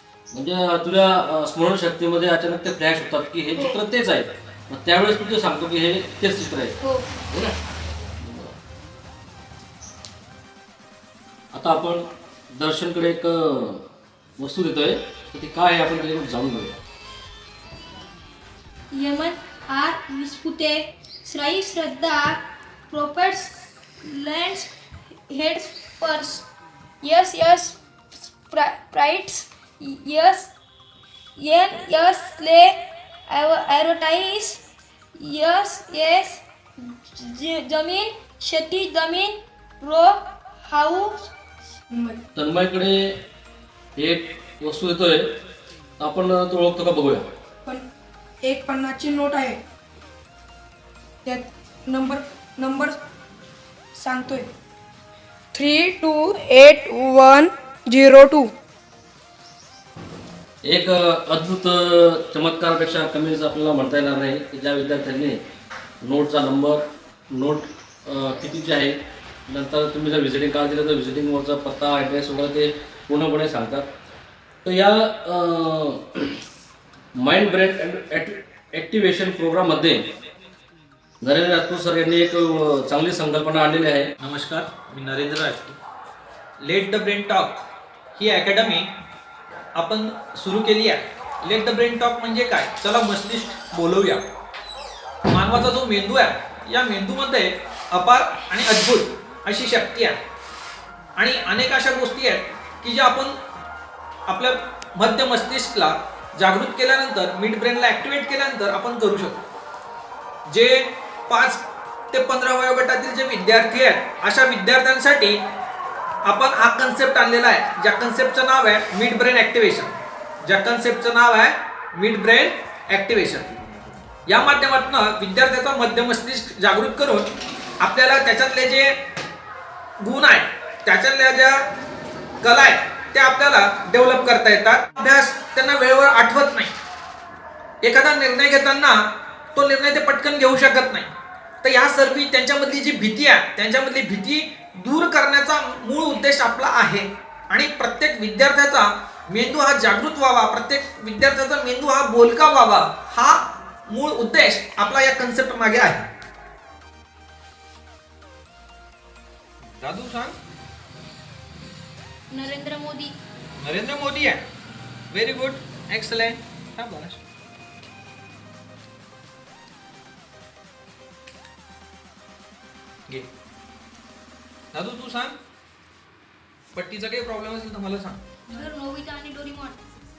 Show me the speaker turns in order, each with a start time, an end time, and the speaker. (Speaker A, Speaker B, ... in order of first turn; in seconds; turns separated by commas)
Speaker A: 0.3-6.8, Speaker B: 6.8-7.0, Speaker A: 8.2-8.5, Speaker A: 11.5-16.8, Speaker B: 18.9-24.7, Speaker B: 25.3-26.5, Speaker B: 27.0-30.5, Speaker B: 31.4-32.7, Speaker B: 33.3-34.6, Speaker B: 35.2-41.3, Speaker C: 41.9-42.2, Speaker A: 42.3-43.2, Speaker A: 44.0-45.4, Speaker A: 46.0-47.3, Speaker C: 48.4-49.6, Speaker C: 51.2-53.0, Speaker C: 54.0-54.5, Speaker C: 55.5-58.5, Speaker A: 60.6-65.4, Speaker A: 66.0-73.9, Speaker A: 74.6-76.4, Speaker A: 77.2-80.1, Speaker A: 81.2-84.1, Speaker D: 84.2-85.8, Speaker D: 86.6-87.6, Speaker D: 88.2-88.9, Speaker D: 89.7-94.2, Speaker D: 95.3-100.2, Speaker D: 101.2-103.4, Speaker D: 104.3-109.4, Speaker D: 110.5-115.4, Speaker D: 116.2-129.0, Speaker D: 130.0-131.6, Speaker D: 132.4-136.7, Speaker D: 137.8-156.1, Speaker D: 159.7-160.4, Speaker B: 162.3-163.2, Speaker D: 163.6-164.4, Speaker D: 165.1-167.2, Speaker D: 174.7-175.4, Speaker D: 176.7-178.2, Speaker B: 178.5-179.8